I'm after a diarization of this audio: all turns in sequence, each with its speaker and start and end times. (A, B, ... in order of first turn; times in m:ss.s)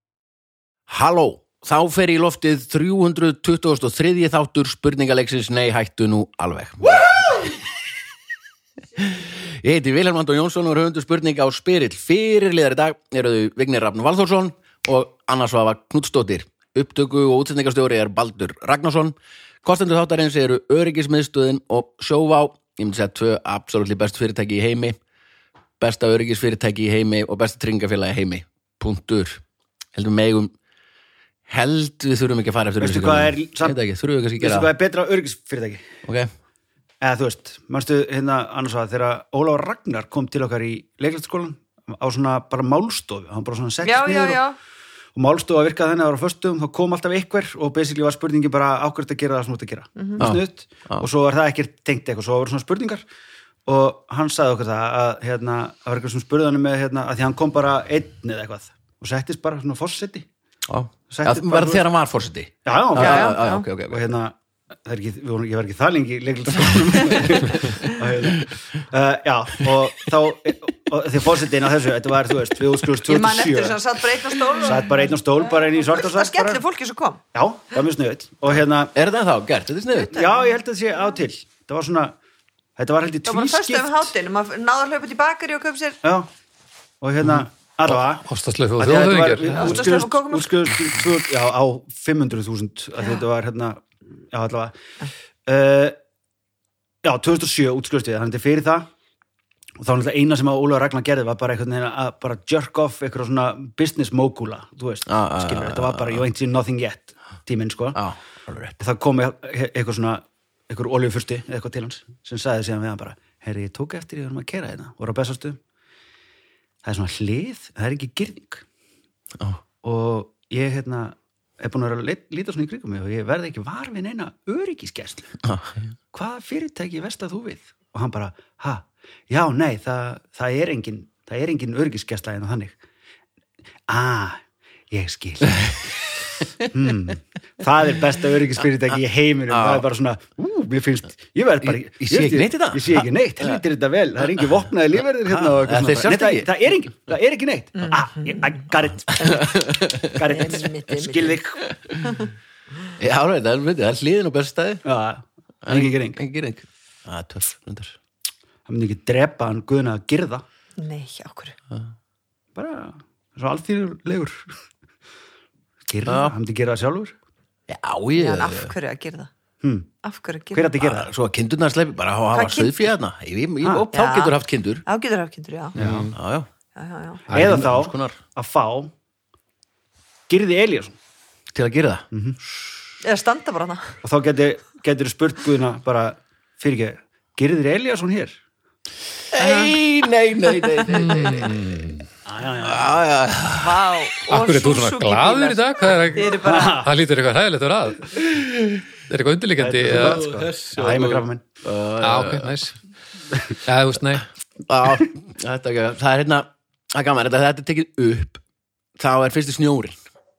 0:00.9-0:07.4 A
0:09.0-0:25.0 A
0:25.8-0:29.4 A
0:30.0-0:30.5 A
0:31.5-0:34.7 A
0:32.8-0:33.8 B
0:34.4-0:35.9 B
0:36.0-0:36.3 A
0:37.0-0:44.4 B
0:43.8-0:44.6 C
0:45.2-0:53.0 B
0:50.0-0:50.3 C
0:50.2-0:51.1 A
0:53.7-1:00.3 B
1:00.7-1:04.2 A
1:01.1-1:01.8 B
1:02.7-1:13.8 B
1:03.0-1:03.7 C
1:13.0-1:17.2 C
1:14.6-1:16.6 B
1:17.3-1:18.9 B
1:19.0-1:20.3 A
1:20.0-1:20.5 C
1:20.1-1:22.2 B
1:22.8-1:24.1 B
1:23.2-1:26.0 C
1:26.0-1:26.3 B
1:27.0-1:28.2 B
1:27.2-1:29.9 D
1:28.8-1:34.8 B
1:29.5-1:30.5 C
1:35.5-1:36.0 B
1:37.0-1:38.9 B
1:39.8-1:48.0 B
1:45.1-1:46.3 A
1:48.0-1:48.8 A
1:48.8-1:55.6 B
1:56.8-1:58.6 B
1:59.4-1:59.6 A
1:59.8-2:05.4 B
2:05.4-2:05.9 A
2:06.1-2:12.8 B
2:13.9-2:16.0 B
2:16.6-2:31.6 B
2:19.5-2:19.9 A
2:21.6-2:23.6 A
2:24.3-2:26.7 A
2:27.8-2:28.6 C
2:29.2-2:30.3 A
2:30.3-2:31.4 C
2:31.6-2:32.2 A
2:33.0-2:34.8 A
2:34.8-2:36.2 B
2:35.6-2:38.0 A
2:38.7-2:40.4 B
2:40.8-2:41.6 C
2:42.6-2:44.5 B
2:45.9-2:47.2 B
2:46.0-2:46.4 A
2:47.7-2:48.7 A
2:48.2-2:49.3 C
2:49.6-2:49.9 B
2:50.0-2:50.7 C
2:50.5-2:51.1 B
2:50.8-2:54.8 A
2:52.3-2:52.9 C
2:53.6-2:53.9 B
2:53.9-2:55.8 C
2:55.8-2:56.1 D
2:55.8-2:56.1 B
2:56.1-2:56.5 A
2:56.8-2:57.3 C
2:57.3-2:58.2 A
2:57.3-2:58.9 B
3:00.3-3:01.0 B
3:01.5-3:02.1 A
3:02.1-3:02.4 B
3:03.0-3:04.0 C
3:04.0-3:08.4 B
3:09.3-3:11.5 A
3:10.9-3:12.0 D
3:12.2-3:13.0 B
3:12.6-3:13.9 A
3:13.6-3:16.9 C
3:14.3-3:18.3 D
3:16.3-3:16.9 B
3:19.1-3:20.3 D
3:19.6-3:21.4 B
3:19.9-3:22.6 A
3:22.0-3:22.8 D
3:23.6-3:24.3 D
3:24.7-3:28.4 A
3:29.0-3:30.0 A